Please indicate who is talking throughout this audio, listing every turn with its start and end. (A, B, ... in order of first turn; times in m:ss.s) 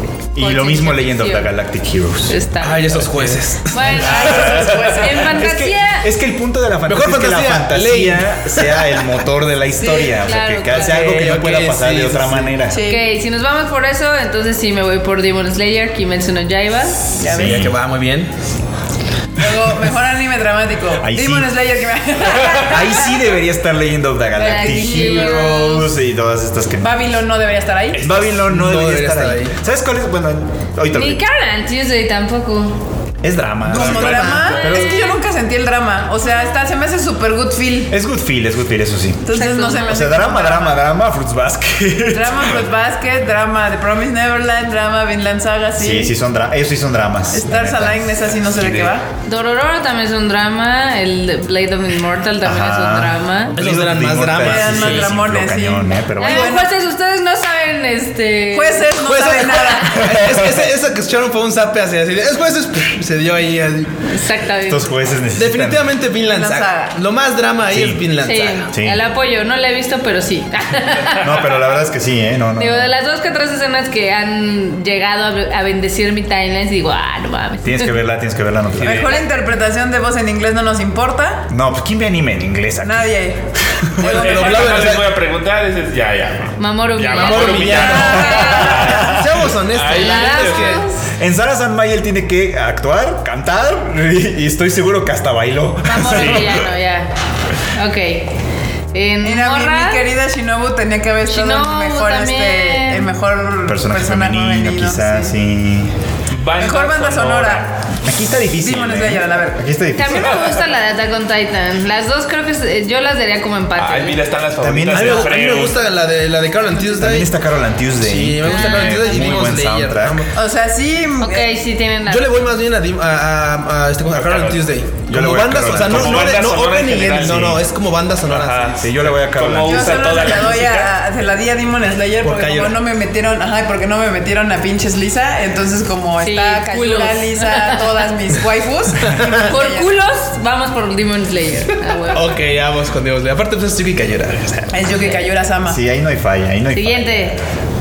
0:00.4-0:02.4 A
0:00.4-0:01.5 B
0:02.3-0:03.1 B
0:02.6-0:04.5 C
0:03.7-0:06.1 B
0:03.8-0:05.4 D
0:04.5-0:05.0 E
0:05.2-0:12.8 A
0:06.9-0:08.9 C
0:09.8-0:11.1 B
0:10.7-0:12.6 C
0:12.7-0:13.0 D
0:12.8-0:17.1 B
0:17.2-0:17.7 D
0:17.2-0:17.8 A
0:17.3-0:18.3 C
0:19.4-0:23.2 D
0:21.0-0:21.5 A
0:22.6-0:27.0 A
0:24.4-0:25.6 D
0:24.4-0:25.9 B
0:26.8-0:28.1 D
0:28.0-0:31.2 A
0:28.4-0:29.5 C
0:30.9-0:32.8 B
0:33.2-0:34.9 A
0:33.7-0:37.9 D
0:33.8-0:34.7 E
0:34.4-0:35.2 B
0:37.9-0:42.7 A
0:39.2-0:40.8 D
0:39.3-0:40.2 B
0:42.1-0:46.2 D
0:45.8-0:48.3 A
0:47.3-0:49.1 D
0:48.6-0:48.9 E
0:49.3-0:53.6 B
0:52.4-0:56.6 A
0:53.6-0:55.2 C
0:54.4-0:56.7 D
0:56.2-0:58.9 B
0:58.5-1:00.1 D
0:59.0-1:04.0 C
1:00.1-1:00.6 A
1:04.1-1:04.9 B
1:04.7-1:05.9 A
1:05.4-1:08.7 C
1:06.3-1:07.0 D
1:07.7-1:08.1 A
1:08.2-1:11.6 B
1:08.7-1:09.0 A
1:11.2-1:12.9 A
1:12.6-1:18.0 B
1:17.6-1:19.2 A
1:18.8-1:19.2 E
1:18.8-1:21.5 D
1:21.5-1:23.1 A
1:22.8-1:23.4 D
1:23.7-1:25.0 A
1:24.0-1:24.8 D
1:24.0-1:25.1 C
1:24.0-1:29.2 E
1:26.6-1:29.2 B
1:27.1-1:30.9 C
1:28.0-1:28.5 D
1:28.6-1:29.3 A
1:29.7-1:30.8 E
1:29.8-1:31.0 B
1:31.2-1:36.6 A
1:35.9-1:37.1 B
1:36.1-1:36.5 E
1:37.7-1:38.3 B
1:38.9-1:40.0 B
1:39.2-1:45.3 D
1:41.3-1:43.1 B
1:43.6-1:45.9 A
1:46.3-1:47.9 E
1:46.6-1:47.7 D
1:48.0-1:50.5 A
1:48.6-1:49.6 D
1:50.0-1:54.2 B
1:53.8-1:55.8 E
1:54.6-1:55.3 A
1:54.9-1:57.3 C
1:56.9-2:00.3 A
1:58.0-2:00.3 C
1:58.4-1:59.5 B
2:00.3-2:01.5 D
2:01.2-2:02.4 B
2:02.1-2:08.9 C
2:04.1-2:04.7 E
2:05.1-2:06.5 A
2:05.6-2:07.6 E
2:07.1-2:07.6 A
2:08.3-2:10.9 E
2:08.8-2:10.3 A
2:09.6-2:19.9 D
2:12.2-2:12.8 C
2:16.2-2:18.0 B
2:19.0-2:19.4 C
2:19.2-2:22.4 B
2:22.1-2:24.7 C
2:24.7-2:25.8 D
2:25.7-2:27.4 A
2:26.7-2:27.4 B